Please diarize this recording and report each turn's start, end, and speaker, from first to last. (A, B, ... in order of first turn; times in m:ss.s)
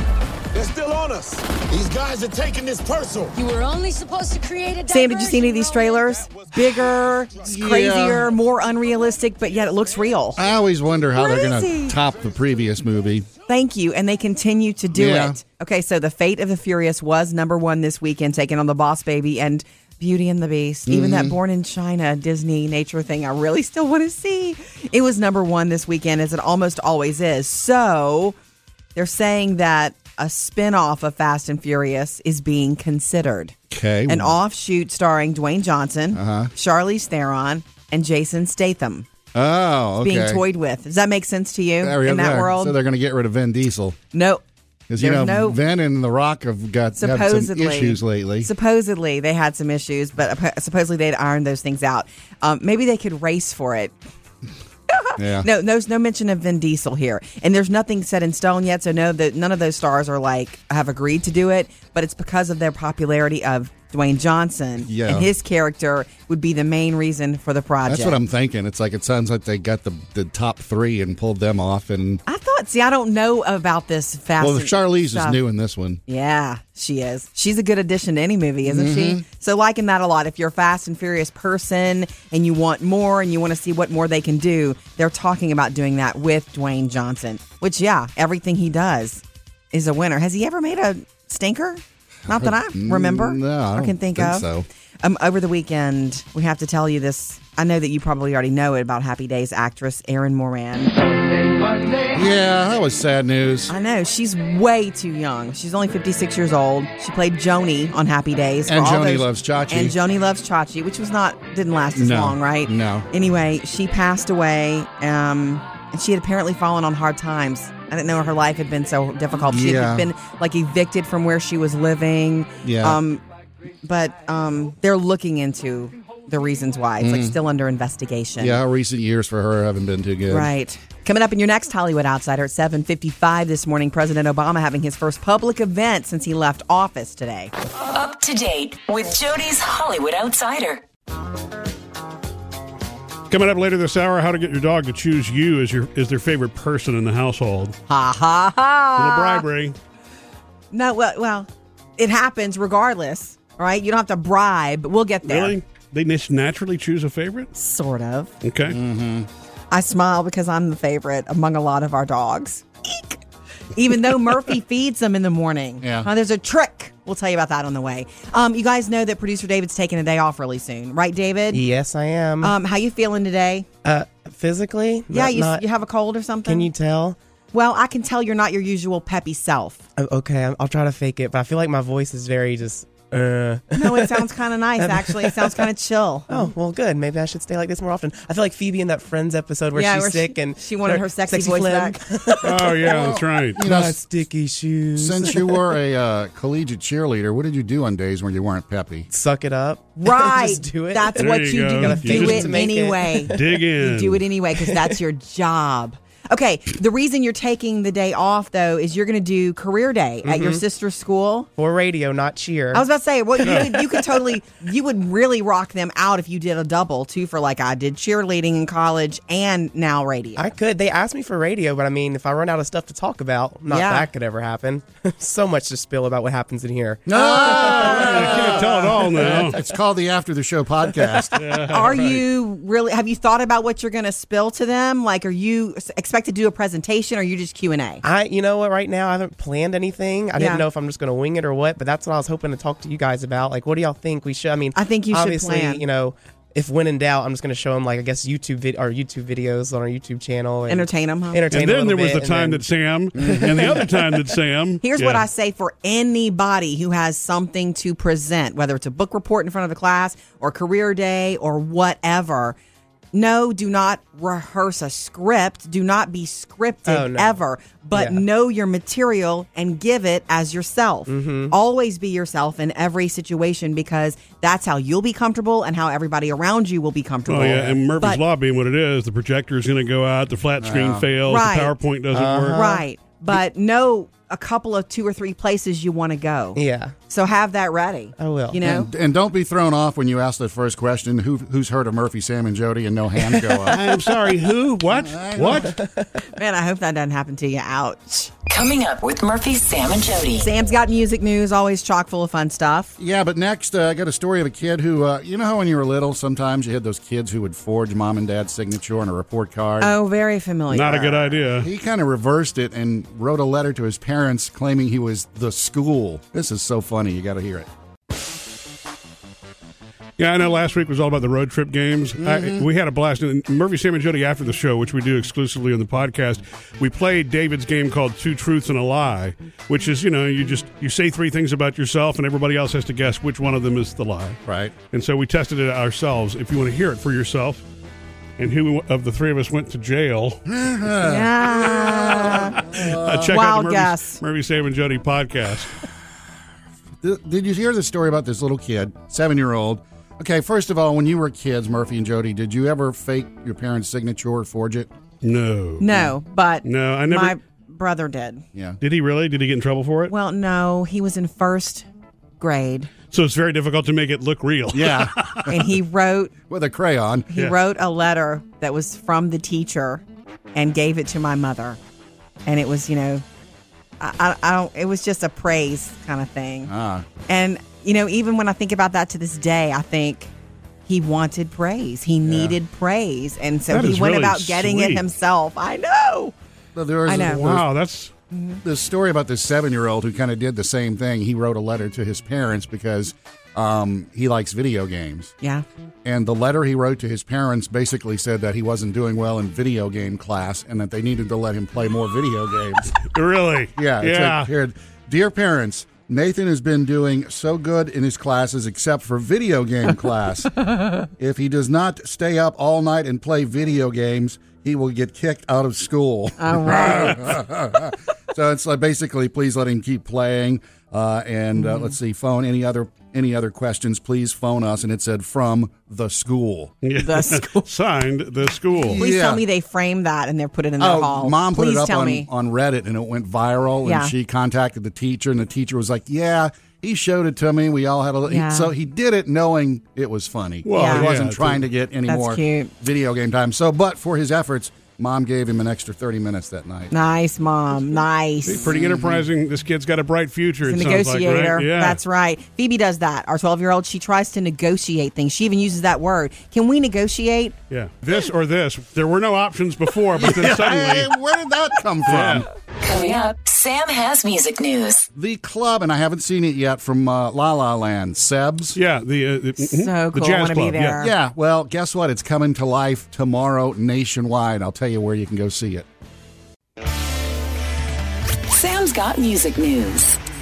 0:00.5-0:03.3 A
0:03.3-0:05.7 B
0:04.9-0:10.4 C
0:07.4-0:08.3 D
0:10.4-0:13.3 D
0:11.2-0:12.0 C
0:13.5-0:28.4 C
0:14.9-0:15.4 D
0:20.9-0:21.4 D
0:28.9-0:33.5 C
0:33.7-0:34.3 D
0:34.1-0:39.1 C
0:36.1-0:36.5 D
0:39.3-0:40.4 D
0:40.0-0:42.8 C
0:41.8-0:44.0 D
0:44.1-0:44.4 C
0:44.9-0:48.5 D
0:45.0-0:45.6 C
0:47.0-0:53.9 C
0:54.9-1:08.2 C
0:55.2-0:55.5 D
1:04.9-1:05.3 D
1:07.8-1:12.2 D
1:12.2-1:15.4 C
1:14.4-1:16.0 D
1:16.1-1:34.5 C
1:18.6-1:19.2 D
1:32.3-1:34.7 D
1:35.0-1:40.9 C
1:42.1-1:43.7 D
1:43.7-2:03.2 C
1:48.6-1:50.0 D
1:51.9-1:53.1 D
1:59.4-2:00.1 D
2:02.6-2:03.0 D
2:03.8-2:08.6 C
2:07.0-2:07.4 D
2:08.4-2:10.5 D
2:10.3-2:17.5 C
2:17.8-2:20.8 E
2:23.3-2:27.8 F
2:27.9-2:29.4 C
2:29.0-2:29.8 F
2:30.7-2:35.6 C
2:35.2-2:37.5 F
2:37.5-2:38.3 C
2:38.4-2:38.8 F
2:38.7-2:39.3 D
2:39.7-2:43.2 C
2:43.7-2:51.6 C
2:45.8-2:46.1 D
2:51.5-2:52.5 G
2:52.4-2:53.7 C
2:53.8-2:55.6 G
2:55.1-2:56.7 C
2:56.4-2:57.2 G
2:57.5-2:59.8 C
3:00.0-3:05.7 G
3:03.7-3:06.5 C
3:06.3-3:15.7 G
3:09.7-3:12.3 C
3:12.4-3:13.6 F
3:12.8-3:14.0 D
3:15.0-3:19.1 D
3:19.1-3:23.6 G
3:20.0-3:31.5 C
3:21.2-3:22.7 F
3:23.3-3:24.2 F
3:24.6-3:25.0 G
3:30.2-3:30.6 G
3:31.6-3:32.8 G
3:32.7-3:40.5 C
3:33.4-3:33.9 G
3:33.4-3:33.7 F
3:40.4-3:49.5 G
3:43.7-3:44.1 C
3:47.1-3:51.6 D
3:47.1-3:48.3 C
3:47.9-3:49.6 F
3:51.3-3:52.2 F
3:51.7-3:58.0 C
3:58.0-4:12.6 G
4:00.4-4:00.6 C
4:04.7-4:05.8 C
4:10.7-4:11.4 C
4:11.5-4:15.2 F
4:13.1-4:13.8 D
4:13.2-4:14.2 G
4:14.8-4:22.6 C
4:23.1-4:38.2 C
4:26.9-4:27.4 G
4:27.9-4:28.2 G
4:31.1-4:31.5 G
4:37.3-4:42.6 F
4:40.6-4:41.1 D
4:41.2-4:41.8 C
4:42.1-4:42.8 G
4:42.5-4:48.9 C
4:46.6-4:46.9 G
4:48.2-4:48.6 G
4:48.6-4:53.8 D
4:53.3-4:53.8 C
4:53.7-4:55.7 F
4:54.9-4:55.7 D
4:55.7-4:56.1 G
4:56.2-4:58.3 C
4:58.5-5:00.4 E
5:00.4-5:02.9 C
5:03.0-5:09.9 D
5:09.8-5:11.3 C
5:10.7-5:11.7 F
5:11.6-5:17.7 D
5:20.2-5:34.4 F
5:22.2-5:22.7 D
5:34.4-5:34.7 D
5:34.9-5:37.6 F
5:38.4-5:40.4 F
5:40.4-5:43.4 D
5:41.0-5:42.7 C
5:42.8-5:45.7 F
5:43.3-5:44.2 C
5:47.0-5:54.9 D
5:55.2-5:56.0 F
5:55.8-5:58.4 C
5:56.6-5:57.3 F
5:58.8-6:00.1 F
6:00.1-6:01.8 C
6:02.4-6:02.9 C
6:03.1-6:05.5 F
6:04.7-6:05.6 D
6:05.5-6:06.3 C
6:06.5-6:07.3 D
6:07.3-6:10.0 C
6:10.5-6:11.8 C
6:12.4-6:13.2 C
6:14.0-6:16.7 C
6:16.7-6:17.1 D
6:17.3-6:20.3 C
6:20.9-6:26.3 C
6:22.2-6:22.5 D
6:23.7-6:25.0 F
6:26.7-6:27.6 D
6:27.0-6:27.5 C
6:27.1-6:28.1 F
6:28.3-6:28.6 C
6:28.6-6:35.3 D
6:36.0-6:43.0 D
6:43.1-6:44.5 F
6:43.8-7:06.8 D
6:56.4-6:57.2 C
6:56.8-6:57.1 F
7:01.6-7:01.9 C
7:06.8-7:09.0 F
7:07.0-7:07.7 C
7:08.8-7:09.4 D
7:09.0-7:12.3 C
7:10.8-7:26.9 D
7:13.8-7:14.1 C
7:18.2-7:18.7 C
7:20.6-7:21.6 F
7:20.7-7:21.1 C
7:22.1-7:22.7 C
7:26.9-7:28.6 C
7:28.4-7:32.0 F
7:28.6-7:29.3 D
7:30.6-7:37.5 C
7:37.7-7:41.1 F
7:40.2-7:42.5 D
7:42.0-7:42.4 F
7:42.8-7:45.1 E
7:45.1-7:48.8 D
7:48.8-7:51.0 F
7:49.6-7:51.1 C
7:51.0-7:55.8 D
7:58.5-8:00.2 E